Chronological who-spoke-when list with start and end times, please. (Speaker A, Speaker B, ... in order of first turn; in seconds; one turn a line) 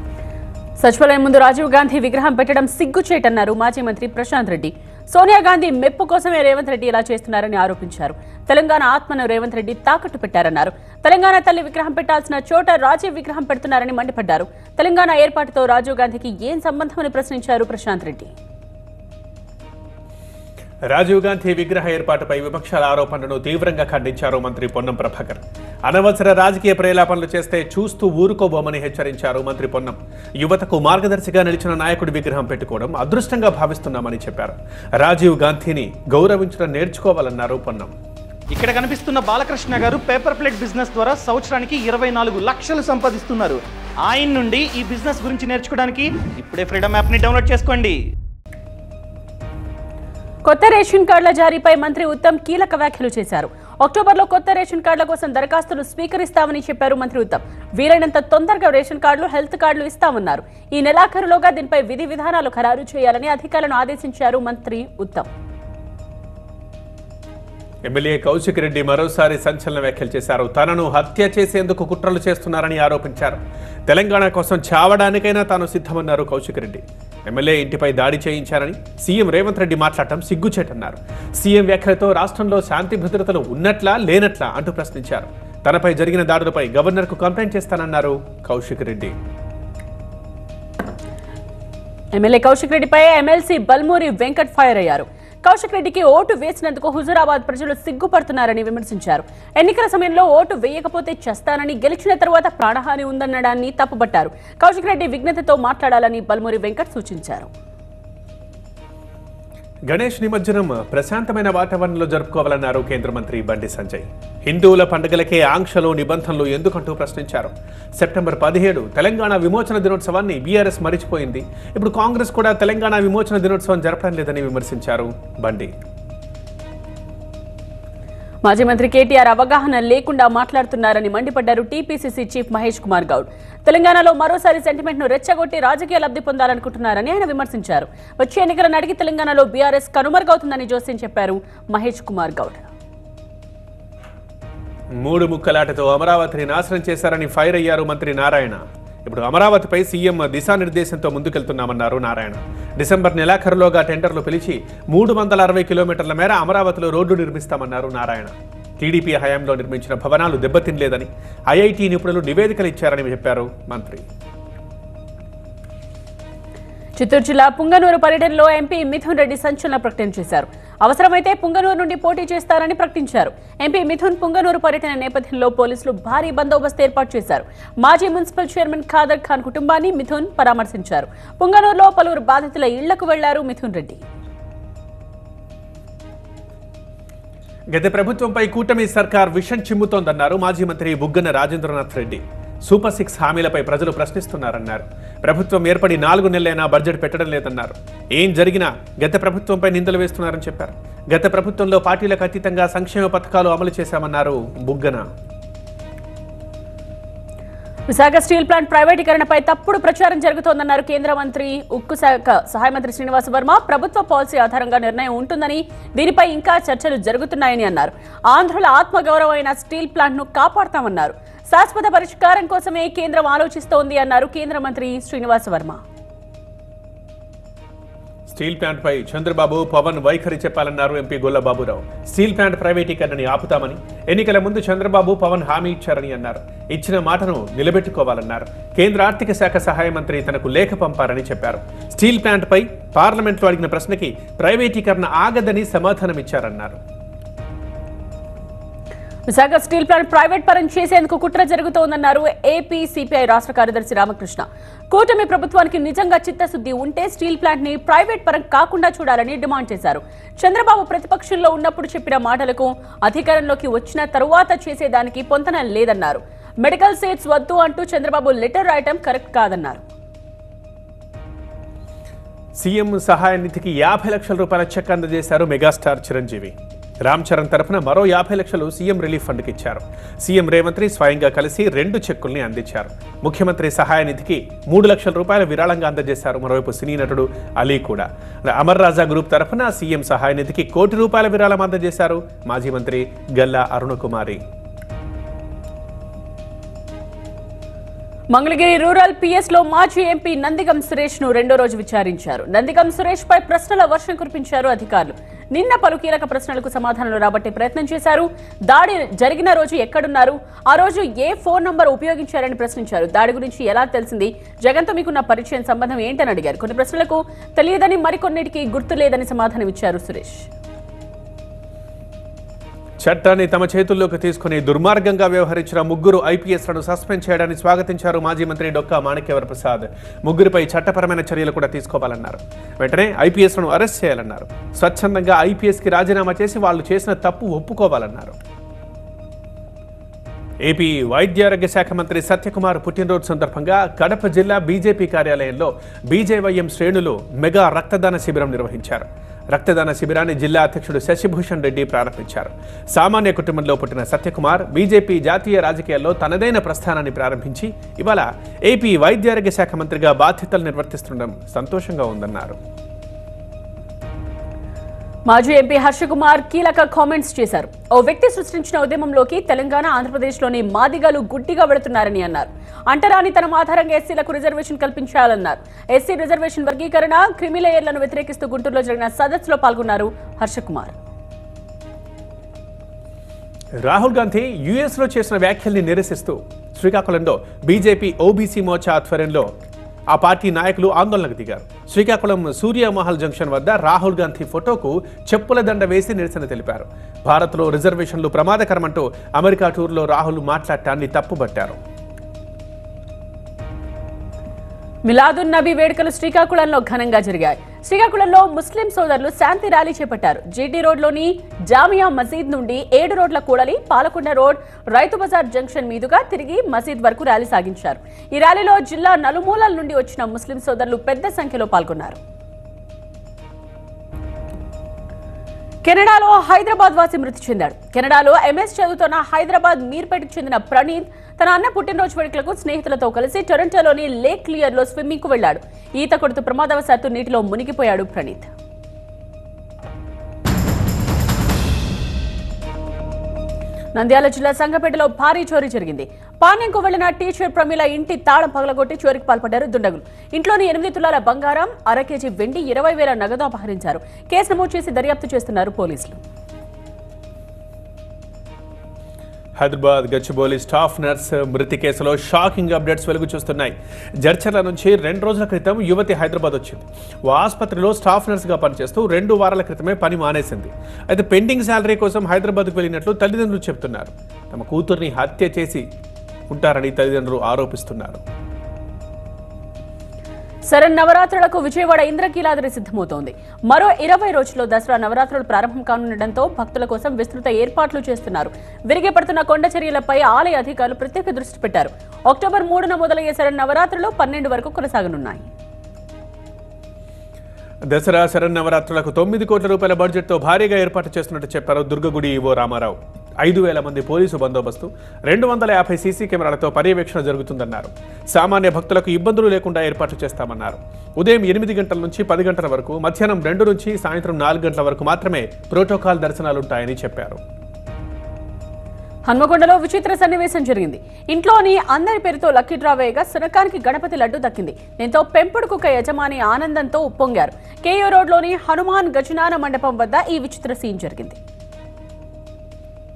Speaker A: 0.8-18.3
Speaker B: 20.9-37.9
Speaker C: 38.5-48.0
Speaker A: 50.4-65.3
Speaker B: 67.8-89.1
Speaker A: 92.1-107.5
Speaker B: 109.9-125.7
Speaker A: 128.4-142.7
Speaker B: 144.9-164.0
Speaker A: 167.0-184.0
Speaker B: 187.7-205.0
Speaker A: 207.9-225.8
Speaker B: 228.3-246.8
Speaker A: 249.3-269.8
Speaker B: 272.6-294.4
Speaker A: 298.3-320.5
Speaker B: 323.0-338.4
Speaker B: 340.6-362.6
Speaker A: 365.3-380.9
Speaker B: 383.8-389.5
Speaker B: 390.1-401.8
Speaker A: 405.1-422.2
Speaker A: 425.8-438.5
Speaker A: 443.9-456.2
Speaker B: 459.6-475.9
Speaker B: 476.5-478.2
Speaker A: 480.7-495.5
Speaker B: 497.9-517.4
Speaker A: 519.3-531.4